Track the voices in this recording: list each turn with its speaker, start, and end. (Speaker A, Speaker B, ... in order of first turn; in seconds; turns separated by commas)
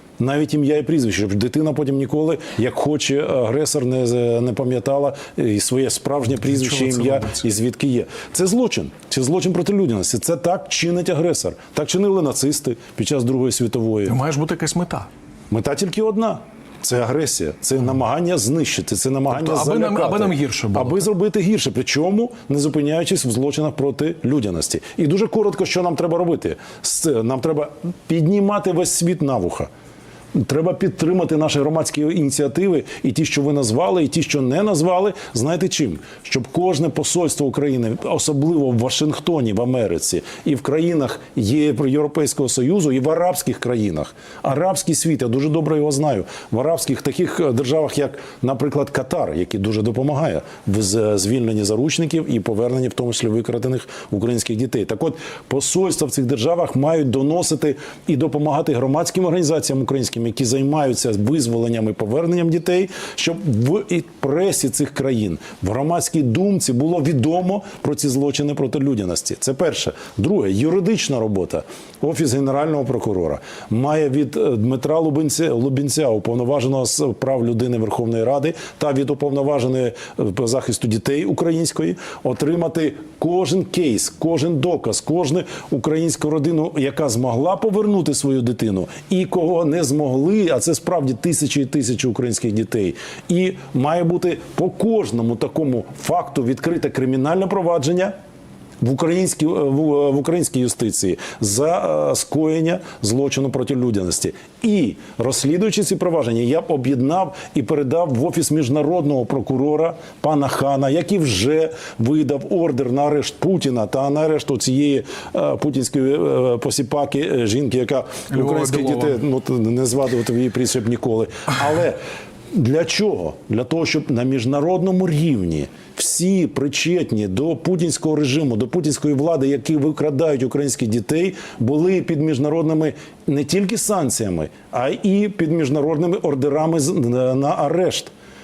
Speaker A: 0.2-14.2, Speaker B: 6.5-7.5, Speaker B: 14.1-15.1, Speaker A: 15.5-29.7, Speaker B: 19.3-21.0, Speaker A: 30.4-98.1, Speaker A: 98.8-122.0, Speaker B: 118.3-119.2, Speaker A: 122.5-138.1